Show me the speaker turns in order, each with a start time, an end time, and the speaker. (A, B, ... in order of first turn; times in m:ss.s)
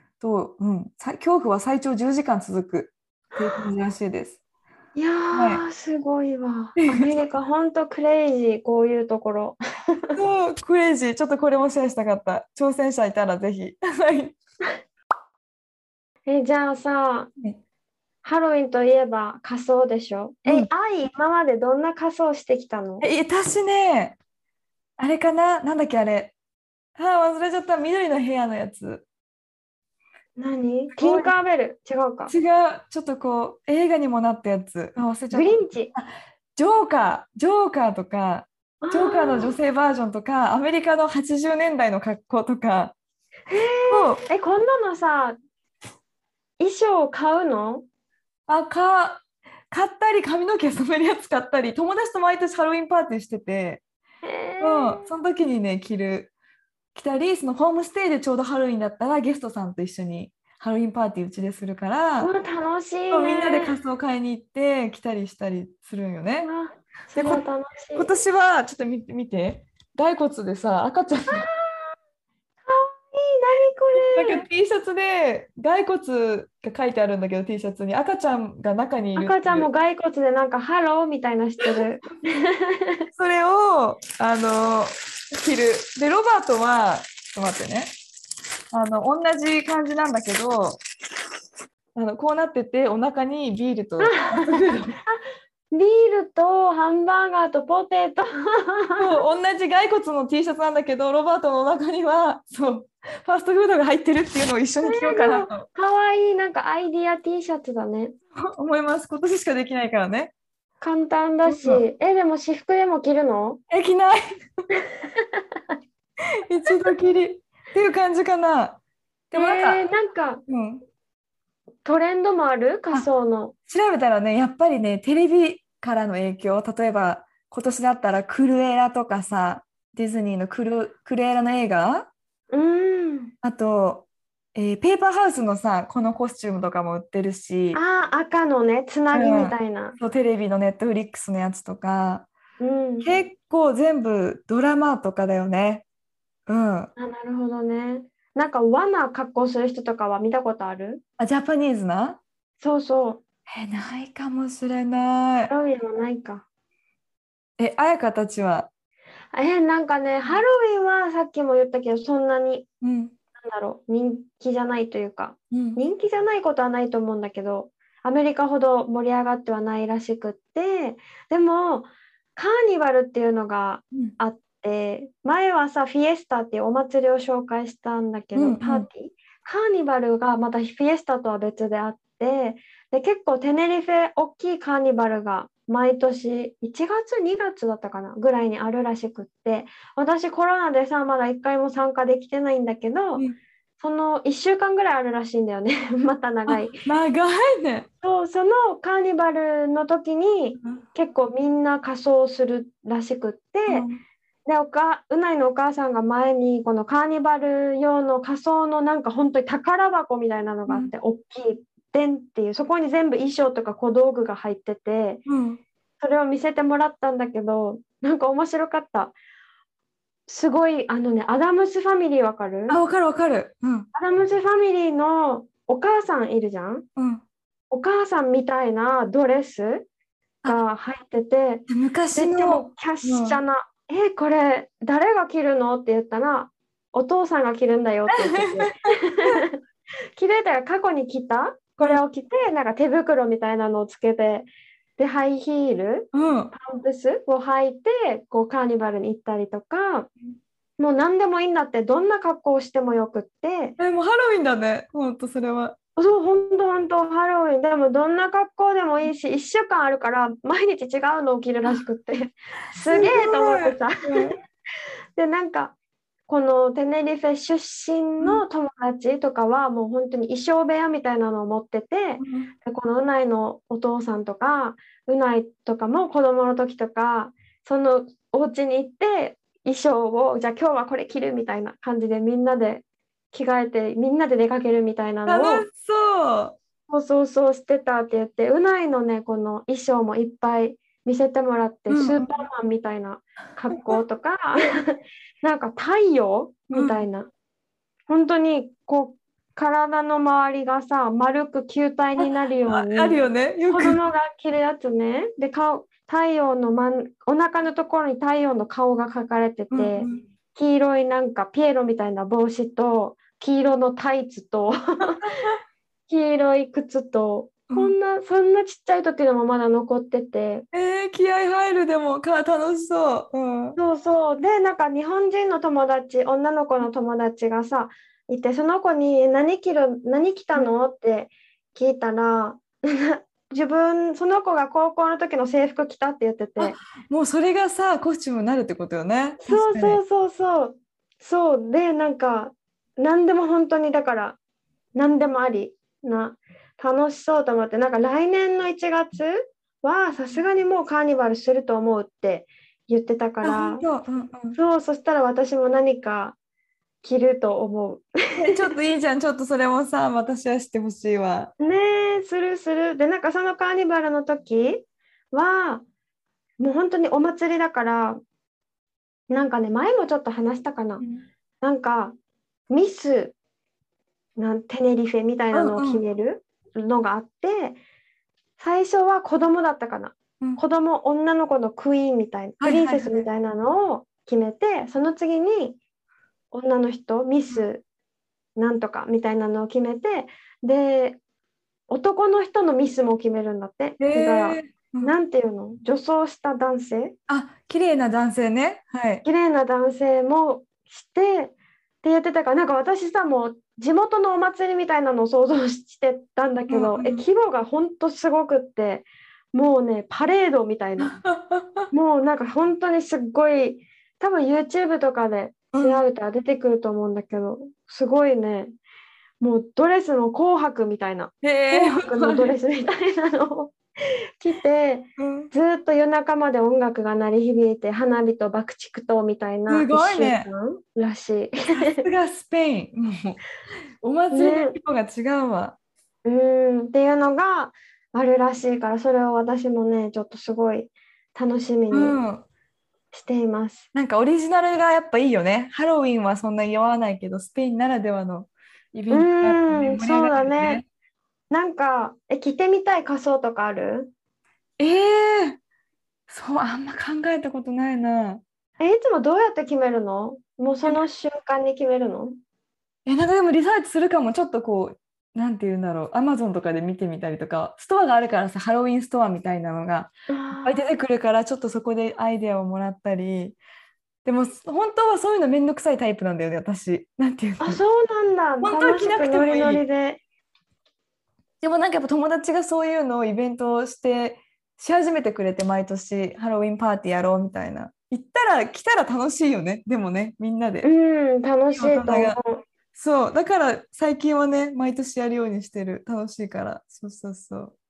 0:00.2-0:04.4 A
0:05.0-0:10.2 B
0:05.3-0:05.6 A
0:06.8-0:07.1 A
0:10.2-0:14.4 A
0:16.3-0:17.3 B
0:18.2-0:23.1 B
0:23.0-0:24.2 A
0:25.0-0:26.3 A
0:27.0-0:29.1 A
0:30.4-0:32.3 B
0:30.9-0:31.3 A
0:32.3-0:43.0 A
0:35.3-0:35.9 B
0:38.8-0:39.5 B
0:43.5-0:45.4 B
0:43.9-0:44.2 A
0:46.6-0:47.8 B
0:48.5-0:53.8 A
0:54.2-0:55.1 B
0:54.6-0:56.3 A
0:57.0-1:02.3 A
1:02.2-1:03.8 B
1:03.1-1:06.5 A
1:06.4-1:08.1 B
1:07.2-1:07.4 A
1:08.0-1:11.5 A
1:11.3-1:11.9 B
1:12.7-1:14.4 B
1:14.0-1:19.7 A
1:19.2-1:23.1 B
1:23.1-1:27.9 A
1:28.7-1:30.8 A
1:32.0-1:35.0 A
1:34.0-1:35.2 B
1:35.7-1:39.2 B
1:39.0-1:45.7 A
1:44.8-1:48.2 B
1:48.4-1:50.3 A
1:50.8-1:53.6 B
1:51.5-1:51.8 A
1:53.7-1:54.2 A
1:55.0-1:55.4 B
1:56.4-1:58.8 A
1:59.3-1:59.9 A
1:59.3-2:00.4 B
2:00.5-2:00.8 A
2:01.8-2:03.5 B
2:03.7-2:12.1 A
2:12.5-2:13.3 B
2:13.4-2:17.8 A
2:17.7-2:20.0 B
2:19.1-2:22.3 A
2:22.6-2:23.2 B
2:23.0-2:25.8 A
2:26.5-2:26.9 A
2:27.0-2:31.0 B
2:31.2-2:32.2 A
2:32.6-2:33.2 B
2:33.5-2:35.5 A
2:35.4-2:36.4 B
2:37.6-2:38.7 A
2:39.3-2:42.7 B
2:42.8-2:43.1 A
2:43.4-3:13.2 B
2:45.5-2:45.8 A
2:58.3-2:58.9 A
3:13.8-3:16.8 B
3:16.5-3:17.9 A
3:18.0-3:23.9 B
3:23.7-3:24.0 A
3:24.5-3:35.2 B
3:35.3-3:35.6 A
3:36.0-3:39.1 B
3:40.3-3:42.8 B
3:42.7-3:43.9 A
3:43.9-3:46.8 B
3:47.0-3:47.2 A
3:47.7-3:49.9 B
3:50.4-3:59.6 B
3:51.7-3:53.4 A
3:58.1-3:59.3 A
4:00.2-4:10.1 B
4:06.1-4:06.5 A
4:10.8-4:13.8 B
4:13.8-4:15.8 A
4:16.0-4:24.3 B
4:22.8-4:24.4 A
4:25.2-4:25.7 B
4:26.3-4:45.7 B
4:32.2-4:32.5 A
4:45.3-4:46.6 A
4:46.9-4:57.3 B
4:51.9-4:52.3 A
4:56.7-4:57.0 A
4:58.1-5:15.4 B
5:02.2-5:04.0 A
5:09.7-5:10.2 A
5:15.2-5:15.6 A
5:16.1-5:20.6 B
5:17.7-5:18.0 A
5:20.7-5:23.8 A
5:23.8-5:36.8 B
5:36.6-5:40.0 A
5:39.4-5:44.4 B
5:45.0-5:53.8 B
5:53.4-5:54.6 A
5:54.6-5:56.4 B
5:57.0-5:58.7 B
5:58.4-6:01.5 A
6:01.6-6:05.8 B
6:06.6-6:08.2 B
6:09.3-6:11.0 B
6:11.0-6:11.2 A
6:11.6-6:12.1 B
6:12.7-6:13.4 B
6:14.4-6:17.8 B
6:15.5-6:16.0 A
6:18.6-6:25.8 B
6:22.6-6:23.2 A
6:26.5-6:27.8 B
6:28.6-6:31.2 B
6:31.9-6:37.2 B
6:34.0-6:35.1 A
6:37.3-6:39.2 A
6:39.2-6:51.1 B
6:46.7-6:47.2 A
6:51.0-6:51.9 A
6:51.9-6:58.7 B
6:55.7-6:56.0 A
6:59.4-7:03.8 B
7:01.4-7:02.6 A
7:04.4-7:12.1 B
7:05.2-7:05.5 A
7:09.7-7:10.5 A
7:11.7-7:13.4 A
7:14.0-7:15.8 A
7:14.3-7:14.8 B
7:16.2-7:22.2 B
7:21.9-7:22.5 A
7:23.1-7:23.9 B
7:23.9-7:30.8 A
7:29.1-7:30.8 B
7:31.5-7:34.1 B
7:34.8-7:35.6 A
7:36.3-7:38.4 A
7:38.8-7:42.4 B
7:43.1-7:53.6 A
7:50.3-7:50.8 B
7:54.2-7:57.8 A
7:57.6-8:00.2 B
7:58.6-7:59.8 A
8:01.6-8:10.9 A
8:10.8-8:12.6 B
8:11.8-8:12.4 A
8:13.0-8:17.7 A